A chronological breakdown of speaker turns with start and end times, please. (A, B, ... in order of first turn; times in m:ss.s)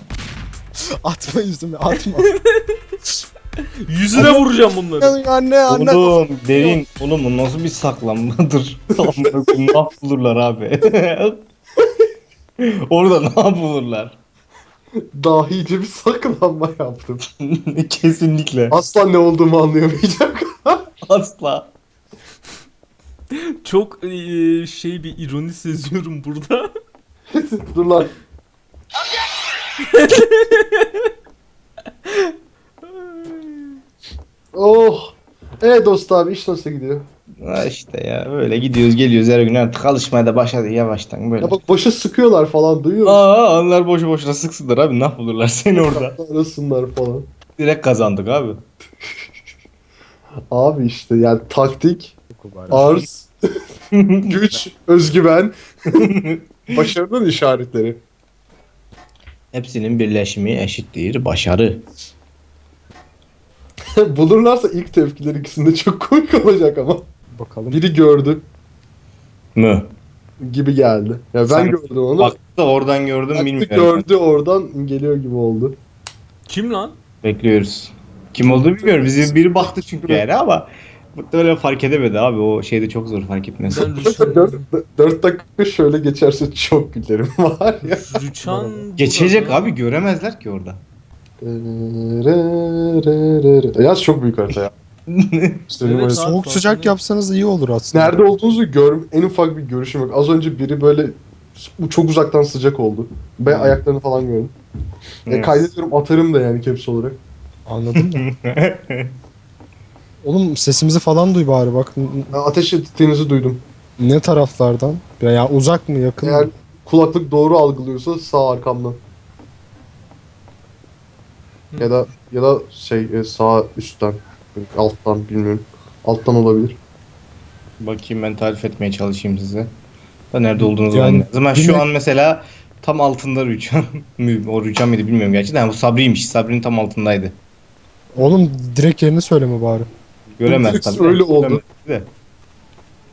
0:01.0-0:02.3 A
0:02.0-0:02.8 B
0:03.9-0:05.1 B
0:04.2-0:04.4 A
0:05.0-0:06.8 A
0:05.7-0:11.4 C
0:12.6-0:14.2 C
0:15.2-0:17.2 D
0:17.4-0:18.8 C
0:18.7-0:20.8 D
0:21.1-0:21.7 C
0:23.6-0:26.7 B
0:27.3-0:28.1 D
0:29.8-0:31.1 B
0:32.1-0:32.3 B
0:33.0-0:33.7 B
0:34.5-0:37.1 D
0:37.4-0:41.6 C
0:41.4-0:43.2 D
0:43.0-0:46.2 C
0:45.8-0:47.3 D
0:47.6-0:48.6 C
0:50.5-0:52.2 D
0:52.3-0:53.1 A
0:52.7-0:53.3 D
0:53.9-0:54.4 C
0:54.3-0:56.0 D
0:56.0-0:56.5 C
0:56.7-0:58.0 D
0:59.5-1:01.8 C
1:04.0-1:07.1 D
1:07.4-1:07.8 A
1:07.7-1:08.5 D
1:09.6-1:09.9 C
1:10.4-1:12.4 D
1:11.5-1:14.1 C
1:13.3-1:15.8 D
1:16.5-1:17.0 B
1:17.2-1:24.3 C
1:18.4-1:20.2 D
1:23.6-1:24.7 B
1:24.0-1:28.8 D
1:27.9-1:29.7 B
1:29.0-1:30.8 C
1:31.4-1:34.7 D
1:35.1-1:35.7 C
1:35.7-1:36.2 D
1:35.8-1:37.0 B
1:36.2-1:38.2 A
1:37.9-1:44.6 D
1:43.5-1:43.8 C
1:45.3-1:45.6 C
1:45.3-1:47.2 D
1:47.7-1:48.3 A
1:48.0-1:49.1 C
1:50.2-1:52.3 A
1:52.3-1:53.6 D
1:54.0-1:56.5 A
1:56.2-1:59.0 D
2:01.8-2:06.8 D
2:07.8-2:09.7 C
2:10.3-2:17.4 C
2:10.6-2:11.9 A
2:18.2-2:19.9 A
2:20.3-2:22.1 C
2:20.5-2:21.6 D